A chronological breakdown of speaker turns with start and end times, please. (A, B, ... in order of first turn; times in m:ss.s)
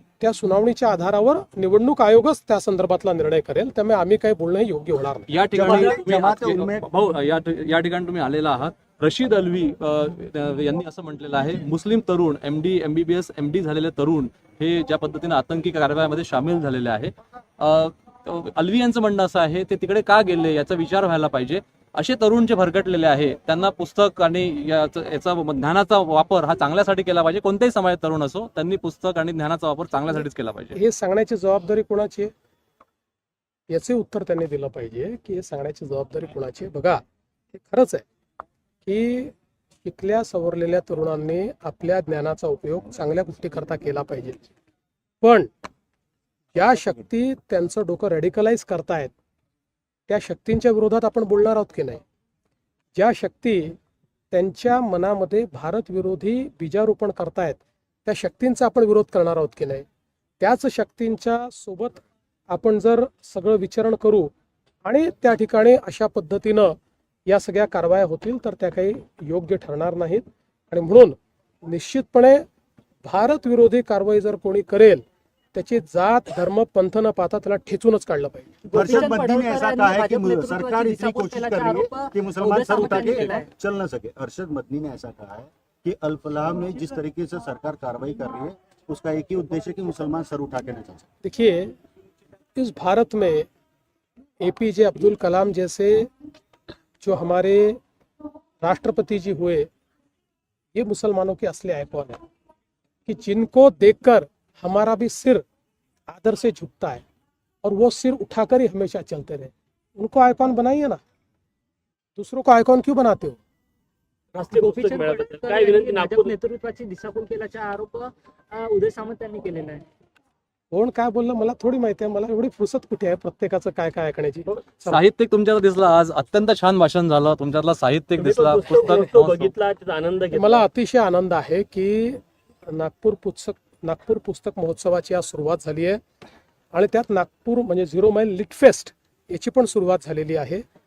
0:00.2-0:05.3 A
0:05.3-0:30.8 B
0:05.5-0:06.9 C
0:30.8-0:32.3 A
0:33.7-0:37.0 A
0:37.6-0:38.0 A
0:38.8-0:44.4 A
0:45.2-0:45.5 A
0:46.6-0:49.1 A
0:50.1-0:52.0 A
0:53.0-0:53.8 A
0:54.3-0:59.8 A
1:00.4-1:04.3 A
1:04.8-1:12.5 A
1:13.0-1:19.0 A
1:18.7-1:31.0 C
1:18.8-1:23.5 D
1:31.2-1:31.8 A
1:32.6-1:33.5 A
1:34.4-1:36.1 A
1:37.0-1:37.8 A
1:38.6-1:39.7 A
1:40.8-1:42.2 A
1:43.1-1:45.4 A
1:46.1-1:47.0 A
1:47.6-1:51.0 A
1:52.2-1:53.4 A
1:54.3-1:56.4 E
1:54.5-1:59.8 D
2:00.7-2:05.0 A
2:04.9-2:09.5 B
2:08.2-2:10.7 E
2:10.3-2:16.0 A
2:16.7-2:20.6 A